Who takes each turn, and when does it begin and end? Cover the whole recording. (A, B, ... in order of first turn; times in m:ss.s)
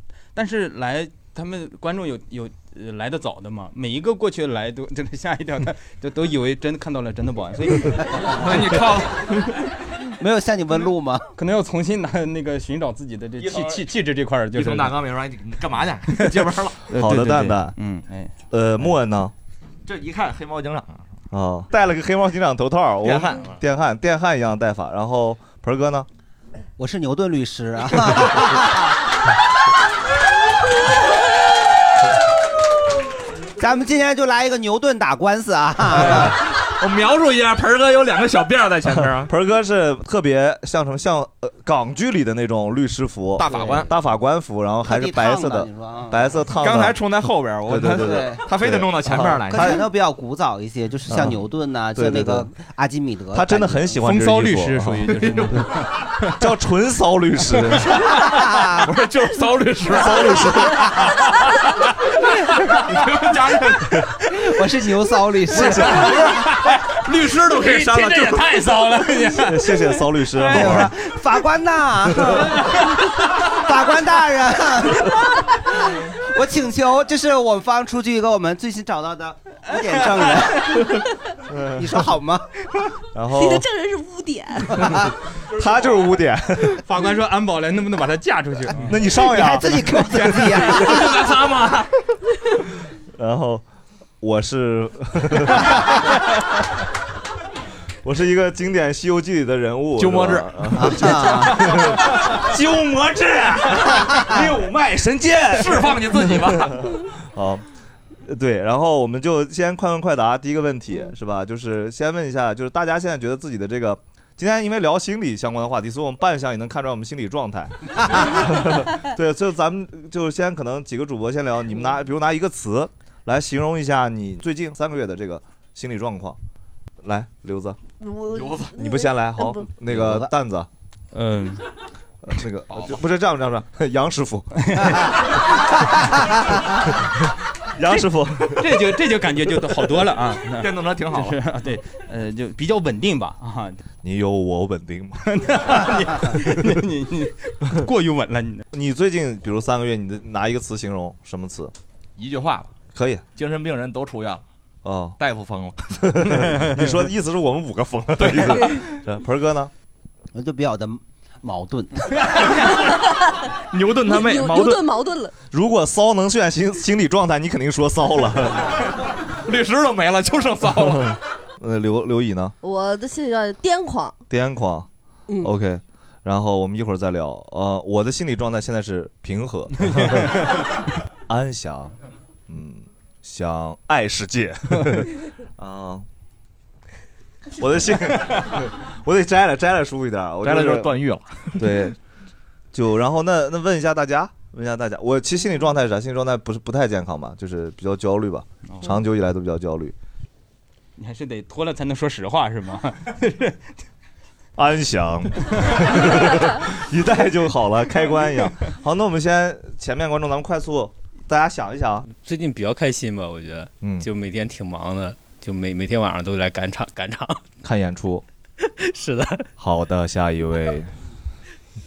0:00.4-0:08.3 A
0:08.3-0:09.4 B
0:10.2-0:11.3 C
0:11.4-0:15.0 A
0:13.4-0:13.8 B
0:14.5-0:16.8 B
0:16.1-0:18.3 A
0:16.9-0:17.8 D
0:18.5-0:19.3 D
0:19.9-0:21.1 B
0:21.3-0:26.1 D
0:23.0-0:23.5 B
0:26.8-0:28.9 C
0:33.6-0:36.4 C
0:36.0-0:39.3 B
0:39.2-0:47.0 D
0:43.4-0:43.9 B
0:43.5-0:43.8 C
0:44.8-0:46.4 C
0:46.6-0:49.8 B
0:47.7-0:49.8 D
0:47.9-0:48.4 C
0:49.5-0:54.0 C
0:51.1-0:51.4 D
0:52.0-0:52.5 D
0:53.3-0:55.0 D
0:54.0-0:55.8 A
0:56.4-0:58.1 D
0:58.3-0:58.8 C
0:58.8-1:01.4 B
1:00.0-1:00.8 D
1:02.9-1:04.0 B
1:04.4-1:06.4 C
1:05.5-1:06.1 D
1:05.8-1:06.2 B
1:06.9-1:09.3 B
1:07.5-1:10.5 A
1:09.4-1:10.9 D
1:10.5-1:12.8 C
1:10.5-1:10.7 B
1:13.5-1:20.9 C
1:21.5-1:22.0 D
1:21.7-1:22.5 C
1:23.2-1:23.7 D
1:23.3-1:24.9 E
1:24.8-1:25.1 C
1:25.5-1:26.8 D
1:26.8-1:29.0 A
1:28.8-1:30.5 D
1:29.1-1:31.1 C
1:30.6-1:31.9 B
1:33.2-1:33.6 D
1:34.2-1:35.8 D
1:38.0-1:47.7 D
1:40.0-1:41.6 B
1:40.7-1:41.6 C
1:44.2-1:44.5 B
1:45.5-1:46.8 B
1:48.2-2:06.4 D
2:07.0-2:07.8 D
2:08.0-2:09.7 E
2:08.3-2:08.8 B
2:08.8-2:10.7 D
2:09.8-2:10.3 C
2:11.1-2:11.6 A
2:12.2-2:14.5 D
2:12.7-2:13.0 B
2:14.7-2:15.0 A
2:17.7-2:18.9 D
2:18.6-2:23.8 A
2:20.4-2:21.4 B
2:24.0-2:25.8 D
2:25.2-2:28.6 A
2:28.7-2:31.7 D
2:32.2-2:32.7 B
2:32.9-2:33.2 D
2:33.4-2:34.4 B
2:34.8-2:35.2 D
2:35.2-2:36.0 B
2:36.0-2:39.7 D
2:38.2-2:38.9 B
2:40.3-2:42.3 C
2:43.7-2:44.8 B
2:44.1-2:45.3 E
2:45.5-2:48.7 D
2:49.4-2:51.2 B
2:51.2-2:52.5 D
2:52.6-2:54.2 E
2:54.3-2:54.9 D
2:55.4-3:00.6 D
3:01.3-3:01.9 D
3:02.5-3:06.1 D
3:07.6-3:11.0 D
3:10.4-3:11.8 B
3:11.6-3:12.0 D
3:12.7-3:19.9 D
3:21.0-3:23.6 A
3:24.6-3:32.1 D
3:32.2-3:37.4 F
3:33.8-3:34.1 D
3:37.6-3:38.2 D
3:38.8-3:39.4 F
3:39.6-3:40.9 D